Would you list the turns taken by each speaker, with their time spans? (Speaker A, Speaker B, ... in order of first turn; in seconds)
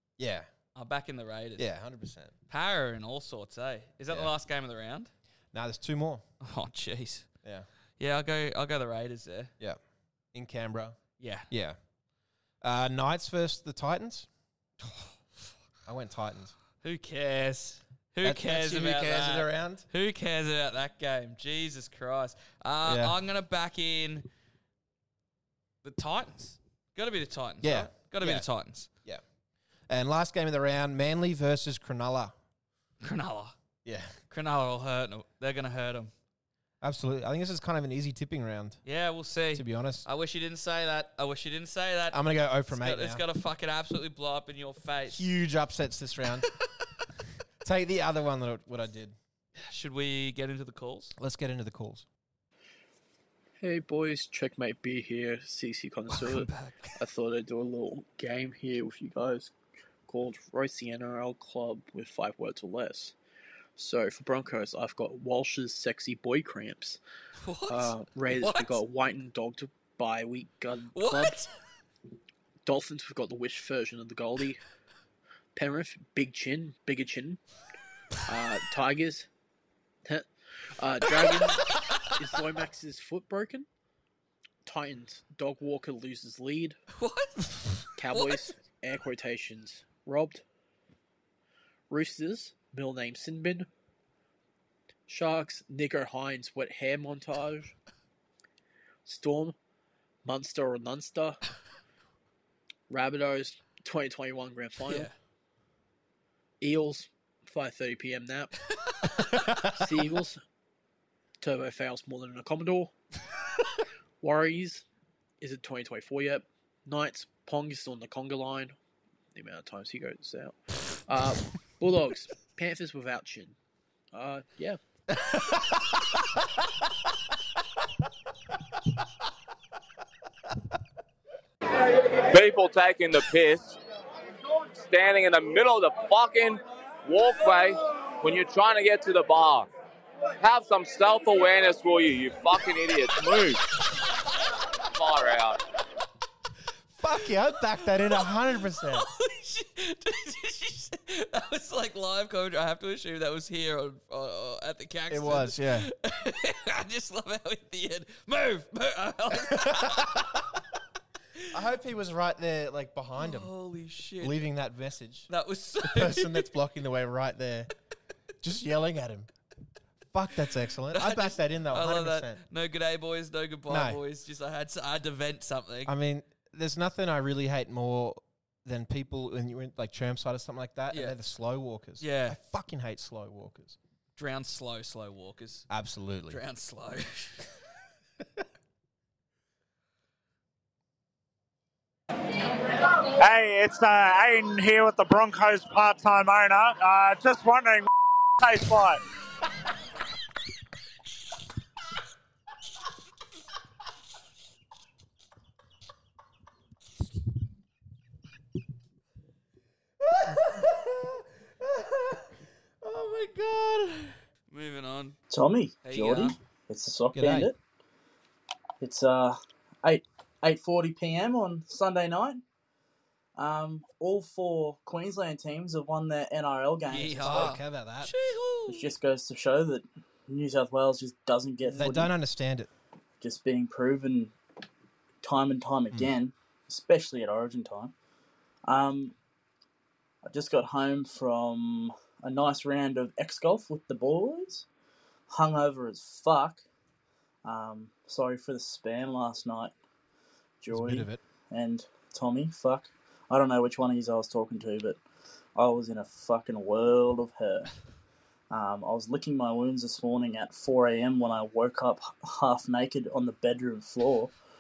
Speaker A: 0.2-0.5, 1.6-2.3, 5.5-6.2, 10.3-11.0, 11.5-11.8, 12.6-14.3, 15.9-16.5, 18.2-19.9, 22.8-23.2, 27.6-28.5, 29.9-32.4, 33.9-34.2, 36.8-38.8, 39.5-40.1, 42.1-43.2, 45.1-46.5, 47.6-49.2, 51.2-52.0, 109.2-109.9, 147.0-149.1, 155.1-155.9, 159.5-160.5, 161.5-163.5, 164.2-165.3, 165.8-167.7, 168.4-169.3, 170.1-172.4, 173.7-174.0, 175.9-183.8, 185.7-186.4, 210.0-214.2, 217.1-217.5, 227.2-228.1, 231.6-232.7, 250.7-251.2
Speaker B: 0.8-1.7, 2.5-5.1, 6.4-7.3, 8.0-9.5, 11.2-11.5, 16.8-24.3, 25.8-28.9, 33.0-33.6, 34.3-36.1, 38.9-45.3, 49.6-51.1, 56.1-56.9, 67.4-68.8, 70.9-71.5, 81.2-82.1, 86.9-88.5, 104.8-105.1, 108.8-109.2, 148.8-160.2, 163.2-164.4, 165.3-166.5, 170.9-175.9, 180.9-181.2, 182.0-182.4, 184.2-185.7, 186.3-187.5, 214.5-215.2, 215.8-216.3, 226.9-228.9
Speaker C: 53.6-59.5, 60.1-63.1, 63.8-67.0, 67.7-71.5, 72.7-74.6, 75.5-77.4, 78.2-79.3, 80.0-83.7, 84.6-86.8, 88.0-90.4, 91.9-93.7, 95.1-97.7, 99.0-99.6, 100.2-101.4, 102.9-105.1, 106.6-108.5, 109.7-110.4, 111.4-112.9, 114.2-114.8, 115.4-118.8, 119.3-123.5, 124.1-124.8
Speaker D: 132.3-133.8, 134.8-139.7, 140.4-143.6, 144.9-145.6
Speaker E: 192.9-197.9, 198.4-199.0
Speaker F: 215.3-217.6, 218.8-222.4, 223.4-227.6, 228.7-232.1, 233.2-234.3, 235.2-237.9, 238.7-239.2, 240.2-244.7, 245.3-246.6, 247.4-249.7, 250.6-255.0, 255.6-257.7, 258.5-264.3